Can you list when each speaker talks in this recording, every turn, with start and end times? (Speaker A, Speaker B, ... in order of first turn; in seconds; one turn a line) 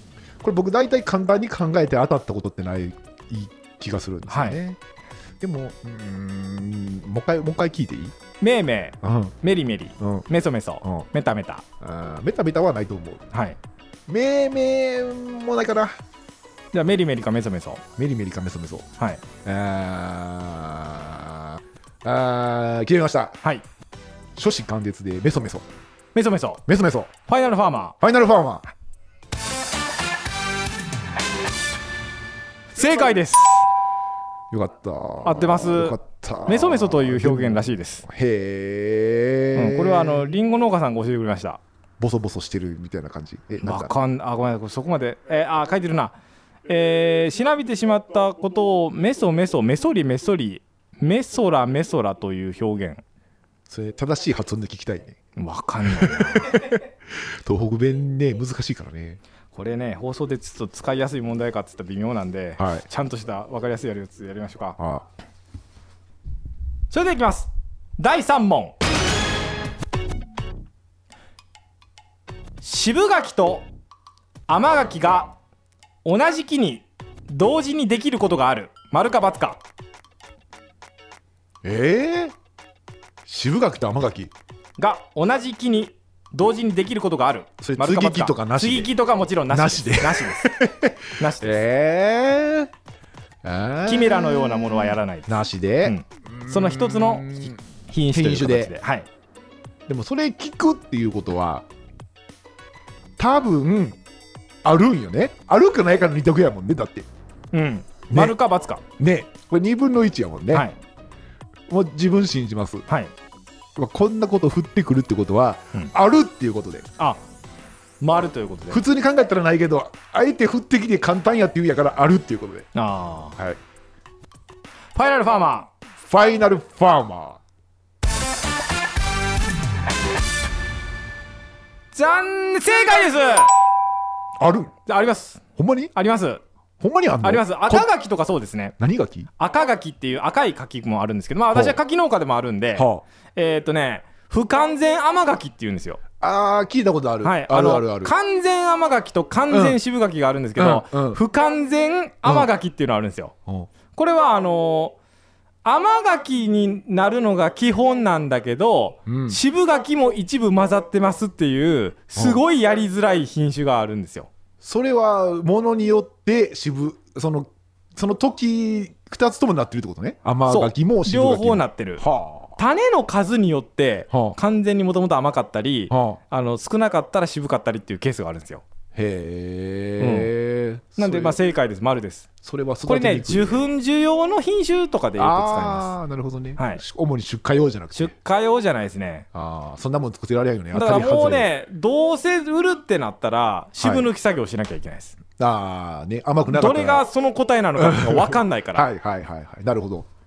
Speaker A: 0.4-4.8
Speaker B: 4.3-4.6
Speaker A: 5.4-8.2
Speaker B: 8.4-11.6
Speaker A: 9.0-9.3
Speaker A: 10.0-10.3
Speaker A: 11.8-13.2
Speaker B: 13.3-13.6
Speaker A: 14.1-16.0
Speaker B: 16.7-17.8
Speaker A: 18.0-18.9
Speaker A: 19.4-23.4
Speaker A: 24.4-25.6
Speaker B: 26.1-26.6
Speaker A: 26.7-27.1
Speaker B: 27.3-27.9
Speaker A: 28.0-28.7
Speaker B: 32.7-33.7
Speaker A: 34.5-40.4
Speaker B: 35.2-38.0
Speaker B: 39.5-41.6
Speaker A: 42.0-43.9
Speaker B: 43.6-46.1
Speaker B: 46.7-53.0
Speaker A: 53.7-55.2
Speaker B: 55.4-56.7
Speaker A: 55.8-59.2
Speaker B: 59.5-64.8
Speaker A: 62.6-62.9
Speaker A: 64.8-65.1
Speaker B: 66.9-68.8
Speaker B: 72.6-73.7
Speaker B: 74.5-75.3
Speaker B: 76.0-79.6
Speaker A: 81.6-82.3
Speaker A: 83.3-84.3
Speaker B: 84.8-90.5
Speaker A: 87.6-88.9
Speaker A: 89.5-92.7
Speaker B: 91.2-91.6
Speaker A: 93.4-97.6
Speaker B: 93.9-95.3
Speaker B: 95.8-99.1
Speaker A: 98.1-98.7
Speaker A: 99.9-101.7
Speaker A: 103.2-104.0
Speaker A: 104.6-107.1
Speaker B: 107.5-108.8
Speaker A: 108.1-108.4
Speaker A: 109.0-110.7
Speaker A: 111.7-112.9
Speaker A: 113.8-116.9
Speaker B: 118.0-118.8
Speaker A: 118.7-122.7
Speaker B: 122.8-123.4
Speaker B: 125.0-125.7
Speaker A: 126.0-127.4
Speaker B: 131.9-133.5
Speaker A: 134.4-134.8
Speaker B: 134.9-135.4
Speaker A: 135.6-135.9
Speaker B: 135.9-136.4
Speaker A: 136.8-137.9
Speaker B: 137.2-138.8
Speaker A: 138.8-139.3
Speaker B: 139.4-146.0
Speaker A: 141.5-141.8
Speaker A: 142.8-143.0
Speaker A: 146.2-148.1
Speaker B: 147.2-153.3
Speaker A: 149.5-149.8
Speaker A: 150.6-151.2
Speaker B: 153.9-155.0
Speaker B: 155.6-164.3
Speaker A: 159.1-159.4
Speaker A: 162.2-162.4
Speaker A: 164.6-172.6
Speaker B: 170.5-172.1
Speaker B: 172.6-178.7
Speaker A: 174.1-174.4
Speaker A: 175.9-176.2
Speaker A: 178.9-181.4
Speaker B: 180.0-180.3
Speaker B: 181.0-182.3
Speaker A: 182.4-183.7
Speaker B: 182.9-185.9
Speaker A: 185.2-188.1
Speaker B: 186.6-186.8
Speaker B: 187.9-189.3
Speaker A: 189.3-191.5
Speaker B: 190.7-195.2
Speaker A: 193.8-194.1
Speaker A: 195.4-197.1
Speaker B: 196.5-198.9
Speaker A: 197.8-200.1